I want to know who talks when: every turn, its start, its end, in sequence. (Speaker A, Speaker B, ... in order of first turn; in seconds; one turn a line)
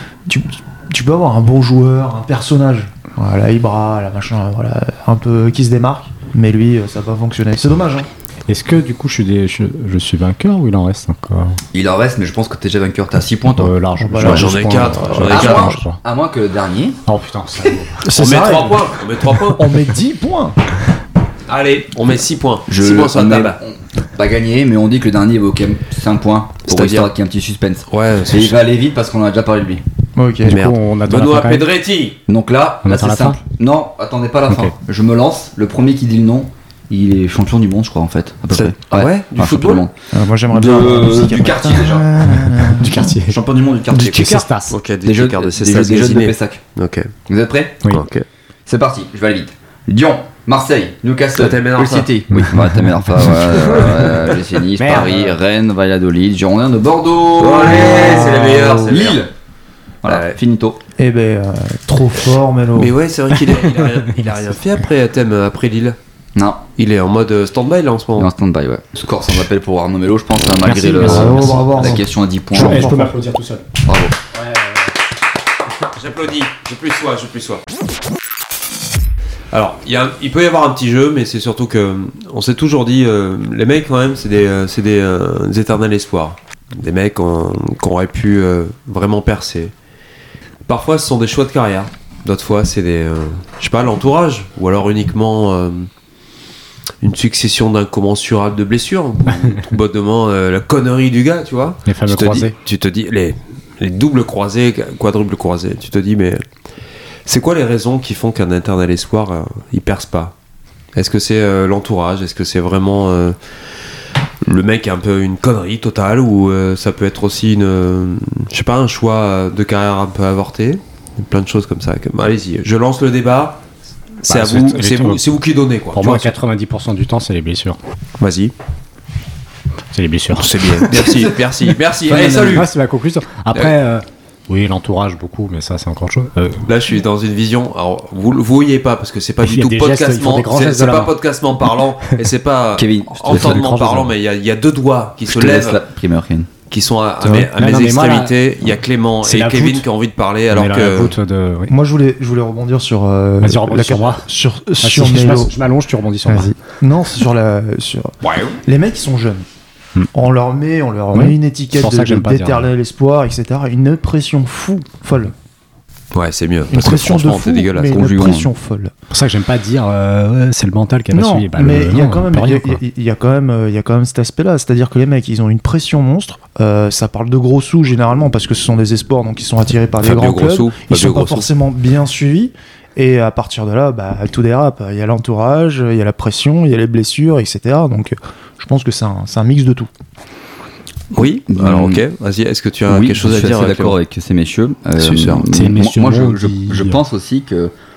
Speaker A: 0.2-8.1
Speaker B: 8.5-11.6
Speaker C: 11.7-14.4
Speaker B: 13.6-16.0
Speaker A: 14.0-15.8
Speaker D: 14.2-15.7
Speaker C: 15.3-17.0
Speaker B: 17.1-18.0
Speaker A: 18.0-18.9
Speaker D: 18.1-19.8
Speaker A: 19.4-20.6
Speaker D: 21.5-23.6
Speaker C: 22.7-29.8
Speaker D: 26.6-27.1
Speaker D: 27.9-28.6
Speaker A: 30.2-30.6
Speaker B: 30.4-31.7
Speaker D: 30.4-32.2
Speaker C: 32.3-39.9
Speaker B: 32.8-33.4
Speaker D: 38.5-39.8
Speaker A: 40.1-43.0
Speaker C: 40.5-42.3
Speaker B: 42.2-43.4
Speaker C: 43.0-44.5
Speaker B: 43.9-44.8
Speaker D: 44.7-47.1
Speaker C: 45.0-46.6
Speaker C: 47.3-47.9
Speaker D: 47.9-48.2
Speaker C: 48.6-59.3
Speaker D: 51.4-52.1
Speaker B: 52.3-53.3
Speaker B: 54.8-55.3
Speaker D: 57.4-59.2
Speaker C: 60.0-60.8
Speaker D: 60.0-60.4
Speaker A: 61.0-63.0
Speaker D: 62.8-66.0
Speaker B: 63.3-64.3
Speaker C: 66.3-66.6
Speaker D: 66.8-68.3
Speaker C: 68.2-73.1
Speaker B: 70.6-72.0
Speaker A: 70.8-73.2
Speaker B: 72.5-73.7
Speaker C: 73.8-74.2
Speaker D: 75.9-77.6
Speaker D: 79.5-89.7
Speaker D: 90.7-95.9
Speaker D: 97.0-106.4
Speaker B: 101.8-102.5
Speaker D: 107.2-110.3
Speaker D: 110.9-113.3
Speaker D: 114.4-123.6
Speaker D: 124.2-126.3
Speaker B: 124.3-125.2
Speaker B: 125.9-127.8
Speaker D: 128.2-128.5
Speaker B: 129.9-131.0
Speaker D: 130.4-132.7
Speaker B: 132.1-136.7
Speaker C: 132.1-132.4
Speaker D: 136.7-145.8
Speaker B: 139.4-141.1
Speaker C: 142.8-143.7
Speaker B: 143.3-144.1
Speaker C: 145.2-146.5
Speaker D: 146.7-151.1
Speaker B: 147.2-148.3
Speaker B: 149.2-149.8
Speaker B: 150.5-151.7
Speaker A: 151.7-155.5
Speaker B: 153.4-154.3
Speaker B: 154.8-156.5
Speaker A: 156.2-158.1
Speaker D: 158.2-158.6
Speaker A: 158.6-159.4
Speaker A: 160.1-165.3
Speaker B: 161.1-162.7
Speaker D: 166.1-168.0
Speaker A: 166.7-168.9
Speaker C: 167.9-168.5
Speaker B: 169.1-172.8
Speaker A: 171.1-189.9
Speaker D: 180.0-181.5
Speaker D: 191.1-194.0
Speaker C: 191.5-192.0
Speaker C: 192.9-197.7
Speaker D: 195.0-195.4
Speaker B: 195.5-197.0